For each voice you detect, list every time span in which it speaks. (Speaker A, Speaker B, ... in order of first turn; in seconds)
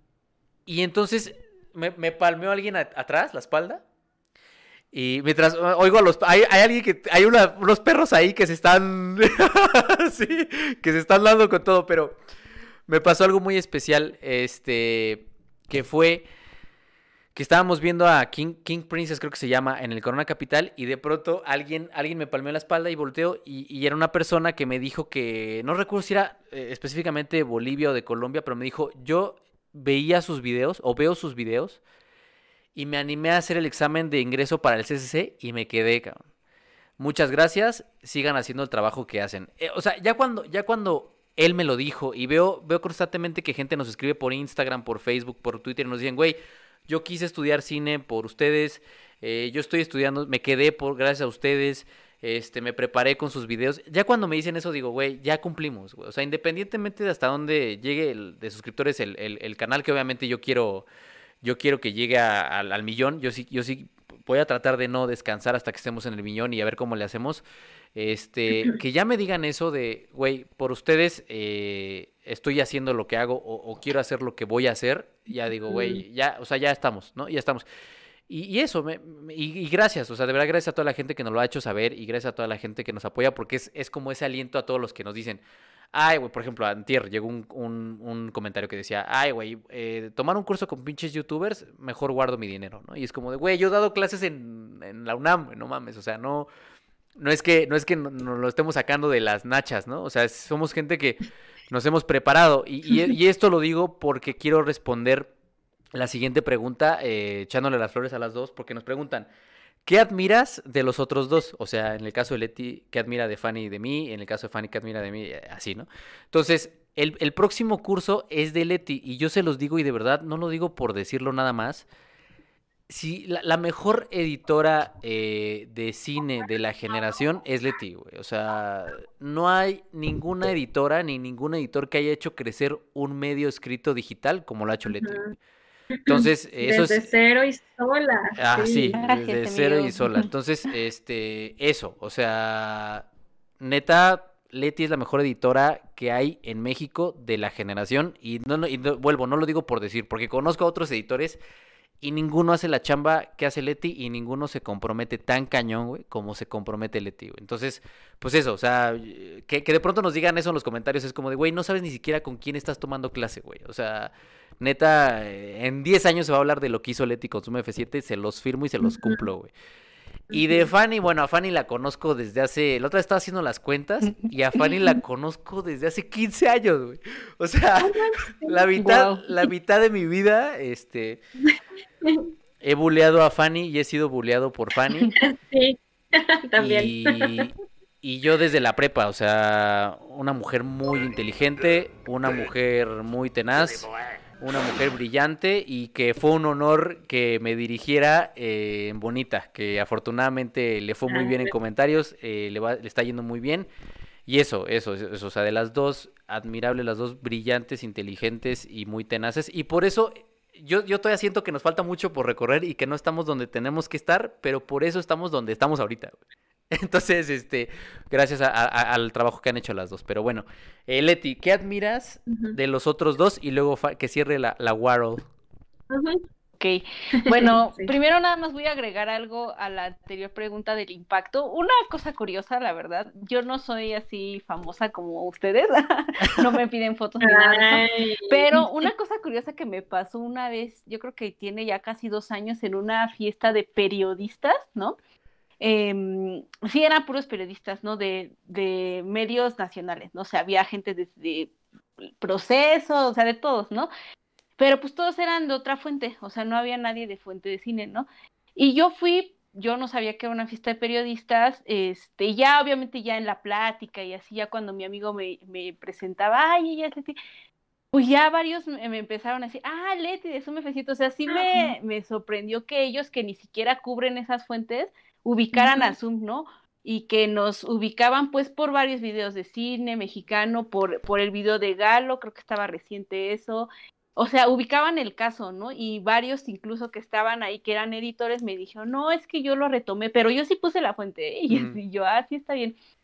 Speaker A: 0.7-3.8, 4.9-12.2, 12.9-16.2, 17.3-31.8, 32.7-36.2, 37.0-60.9, 61.4-67.4, 67.9-77.6, 78.3-85.4, 85.9-96.5, 97.2-101.2, 101.7-105.3, 105.9-109.3, 109.8-121.8, 122.9-135.2, 136.1-137.0, 138.4-143.1, 143.6-151.4, 152.0-169.5, 170.3-181.2, 182.6-185.1, 186.6-193.9, 194.4-203.7, 204.2-216.2, 216.7-225.2, 291.5-291.8
Speaker B: 75.7-76.0, 134.9-135.3, 135.9-139.0, 170.3-170.7, 177.8-178.6, 182.0-182.3, 185.1-187.5, 201.1-201.5, 222.3-222.6, 225.9-226.2, 227.2-227.9, 237.2-238.6, 271.3-271.7, 275.5-275.9
Speaker C: 138.9-140.3, 178.8-179.2, 226.6-245.0, 245.6-253.9, 254.6-267.1, 267.9-292.7